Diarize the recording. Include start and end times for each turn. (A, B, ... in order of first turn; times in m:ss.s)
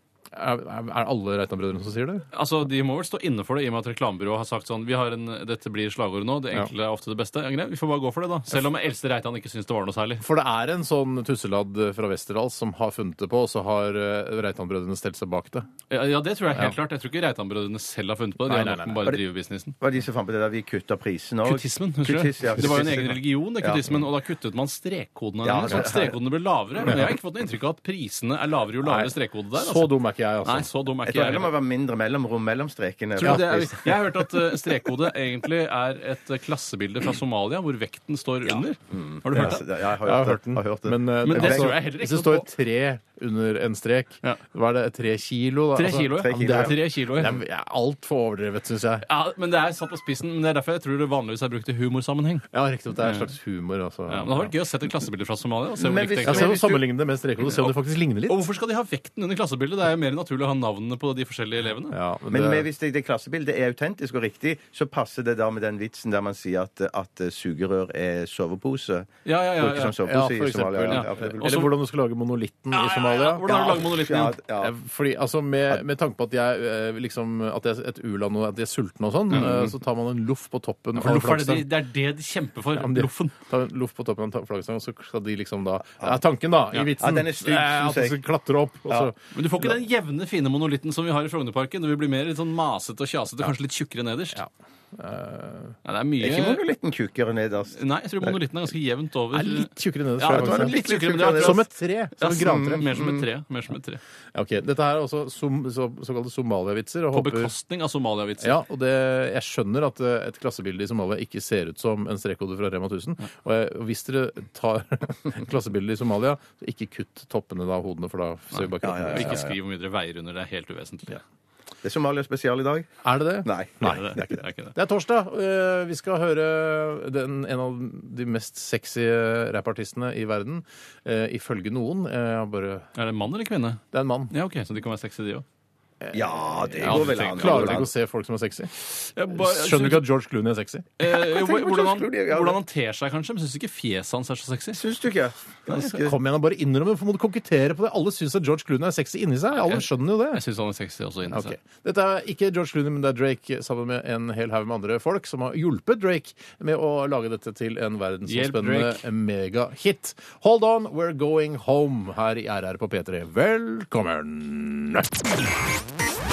0:00.3-0:02.3 A
0:02.3-0:10.2 B
0:10.2-0:15.7 A
0:15.9-0:19.8 B
0:18.4-0:19.1 A
0:19.8-0:23.8 C
0:21.4-0:29.9 B
0:25.4-0:26.2 C
0:28.8-0:30.7 A
0:30.4-0:31.5 B
0:31.0-0:33.9 C
0:33.2-0:39.6 B
0:33.2-0:34.5 A
0:38.4-0:41.8 C
0:39.3-0:49.0 A
0:41.2-0:42.5 B
0:45.7-0:47.4 B
0:46.1-0:46.8 C
0:49.0-0:52.4 B
0:52.5-0:54.5 A
0:53.0-0:53.3 B
0:54.1-0:56.6 B
0:55.8-0:56.8 C
0:56.2-0:58.4 A
0:57.5-0:57.7 B
0:58.3-1:02.0 B
1:01.9-1:02.7 A
1:02.3-1:11.4 C
1:09.2-1:09.9 B
1:10.0-1:13.5 A
1:10.9-1:11.7 B
1:12.7-1:14.4 B
1:13.4-1:14.8 C
1:14.6-1:21.8 A
1:19.3-1:19.7 B
1:19.4-1:19.6 C
1:20.9-1:23.3 B
1:22.7-1:29.2 A
1:25.9-1:26.2 C
1:27.0-1:28.2 C
1:29.3-1:34.4 B
1:34.3-1:35.7 A
1:35.8-1:36.6 B
1:36.2-1:37.8 C
1:37.7-1:41.6 B
1:39.3-1:42.9 A
1:40.3-1:41.6 C
1:42.2-1:44.0 B
1:42.3-1:43.2 C
1:44.3-1:47.5 A
1:47.1-1:48.6 B
1:48.4-1:59.4 A
1:58.5-2:01.2 B
1:58.8-1:59.6 C
2:01.8-2:02.9 C
2:03.0-2:12.9 A
2:03.4-2:04.0 C
2:03.8-2:04.7 B
2:13.0-2:15.4 B
2:13.9-2:14.3 A
2:16.0-2:18.7 A
2:16.1-2:17.9 C
2:16.8-2:17.8 B
2:19.0-2:20.1 B
2:19.3-2:20.9 A
2:21.0-2:24.8 B
2:21.0-2:22.6 C
2:24.7-2:26.2 C
2:25.7-2:26.0 B
2:26.0-2:30.4 A
2:29.5-2:31.6 B
2:31.3-2:45.3 A
2:38.3-2:39.0 B